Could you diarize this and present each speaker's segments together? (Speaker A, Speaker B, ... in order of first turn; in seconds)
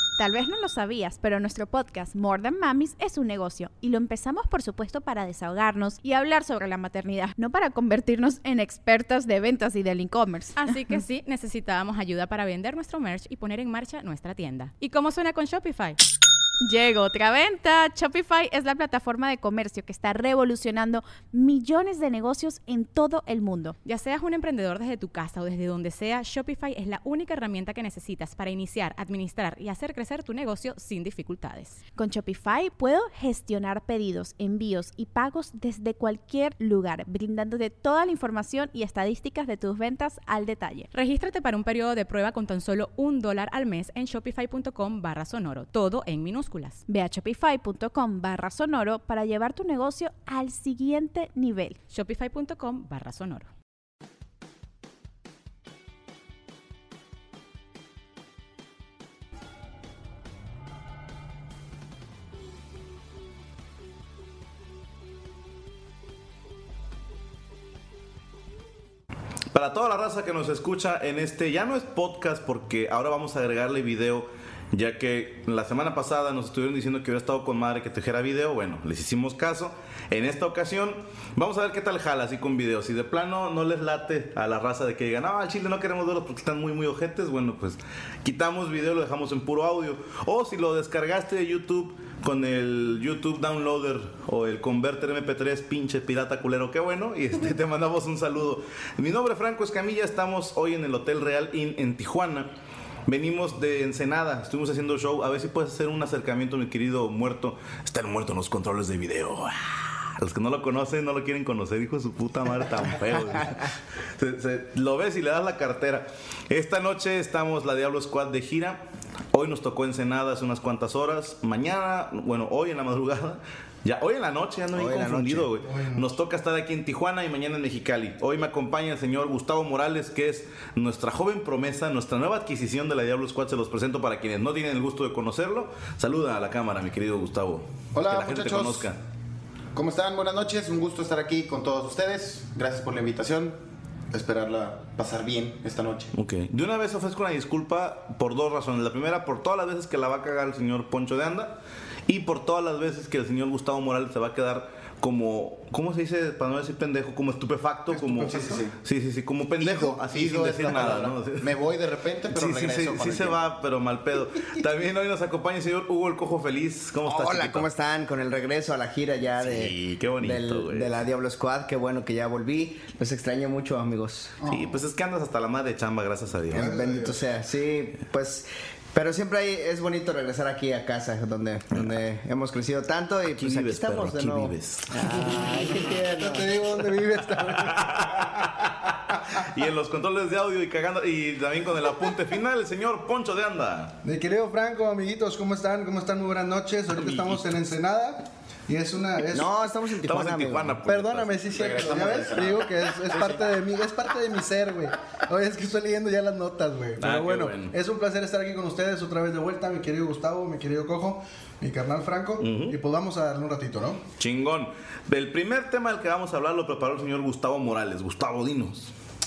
Speaker A: 0.2-11.0, 16.6-23.8, 32.0-40.9, 46.9-51.8
Speaker B: 10.6-16.0, 23.8-31.8, 40.9-46.8, 51.9-53.5
Speaker C: 69.5-102.5, 103.1-118.8, 119.3-139.0, 146.1-161.6, 162.3-167.7, 169.4-171.0, 174.5-176.7, 183.3-185.3, 187.4-194.0, 197.1-197.4, 200.0-201.4, 207.0-207.7, 212.4-212.8, 214.2-218.9
Speaker D: 124.7-125.5, 167.0-174.4, 176.5-186.7, 199.3-200.8
Speaker E: 125.6-126.1, 157.9-158.6, 174.4-174.7, 176.5-177.2, 185.2-189.4, 194.0-199.5, 200.8-214.0
Speaker F: 137.9-138.9, 139.7-143.6, 144.1-146.1, 158.1-158.7, 159.6-163.4, 201.5-203.4